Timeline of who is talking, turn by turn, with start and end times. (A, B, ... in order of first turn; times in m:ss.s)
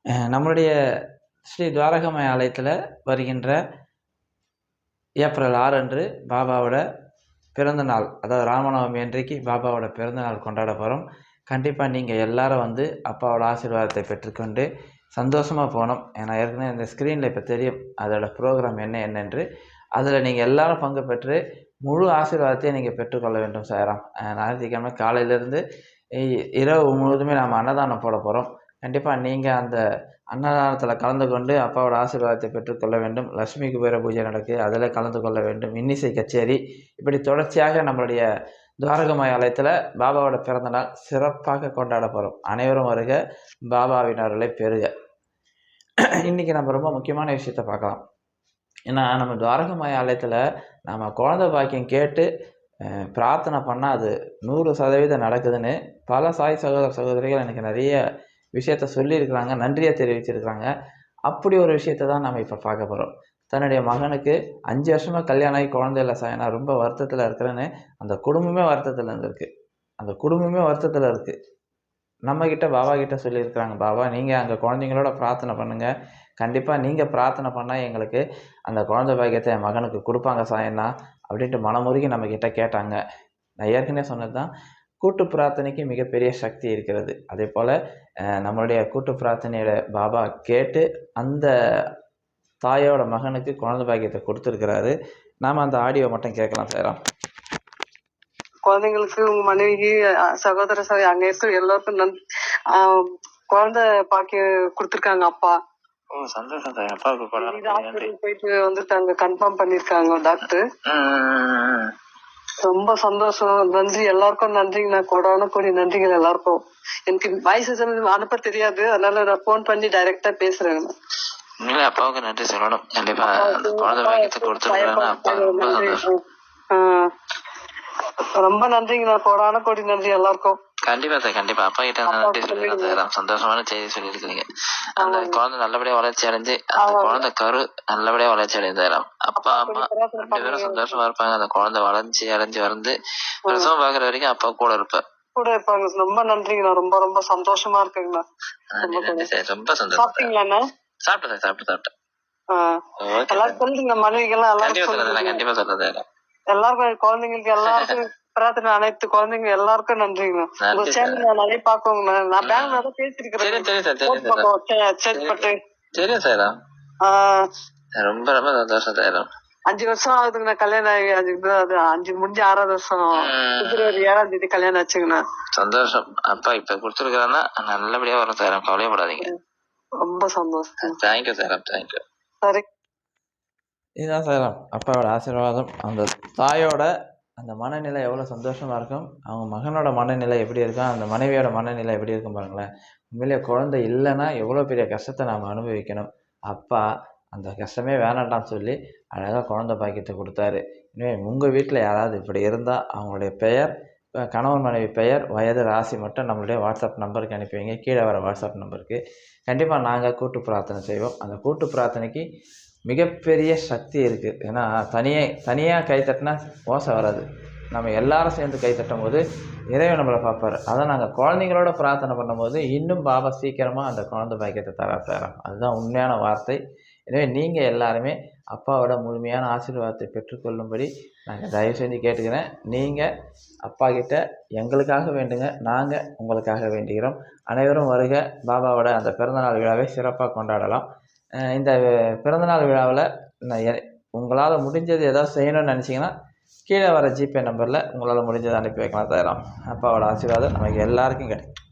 0:00.3-0:00.7 A
0:01.5-0:03.6 A
0:05.2-0:06.8 A
0:07.6-0:19.4 A
0:20.0-0:25.6 A
0:26.2-0:29.8 A
0:30.3-0:38.2 A
0:38.8-0:43.2 A
0:43.7-0:44.9 A
0:46.2-0:48.0 A
0:48.9-0:52.3 A
0:53.1-0:58.0 A
0:58.6-1:00.7 A
1:01.3-1:09.5 A
1:10.0-1:11.3 A
1:12.3-1:15.9 A
1:16.4-1:23.0 A
1:23.6-1:24.5 A
1:25.0-1:27.7 A
1:28.4-1:31.5 A
1:32.6-1:34.9 A
1:35.4-1:37.0 A
1:38.7-1:42.1 B
1:42.7-1:45.5 B
1:46.1-1:48.1 C
1:47.4-1:50.6 B
1:50.9-1:51.8 C
1:52.6-2:00.9 B
2:01.6-2:06.0 C
2:03.2-2:06.2 B
2:06.7-2:07.0 B
2:08.4-2:10.6 B
2:10.9-2:23.0 C
2:12.1-2:13.0 B
2:15.0-2:15.4 B
2:16.8-2:17.2 B
2:19.4-2:21.0 B
2:23.5-2:25.0 C
2:25.4-2:28.2 B
2:28.7-2:30.3 C
2:28.8-2:29.3 B
2:29.9-2:30.6 B
2:31.1-2:31.9 C
2:33.0-2:33.6 C
2:33.3-2:35.4 B
2:34.6-2:36.0 C
2:36.5-2:45.6 B
2:37.6-2:37.9 C
2:40.6-2:41.2 C
2:42.4-2:42.8 C
2:43.4-2:44.4 C
2:45.1-2:46.5 C
2:47.0-2:47.4 B
2:48.0-2:49.3 C
2:49.7-2:55.2 B
2:53.2-2:54.0 C
2:55.6-2:59.3 C
3:00.0-3:01.0 B
3:00.8-3:02.0 C
3:04.0-3:06.9 A
3:07.4-3:16.8 A
3:17.3-3:23.7 A
3:24.3-3:32.2 A
3:32.9-3:53.1 A
3:53.6-4:00.8 A
4:01.5-4:06.1 A
4:06.7-4:11.5 A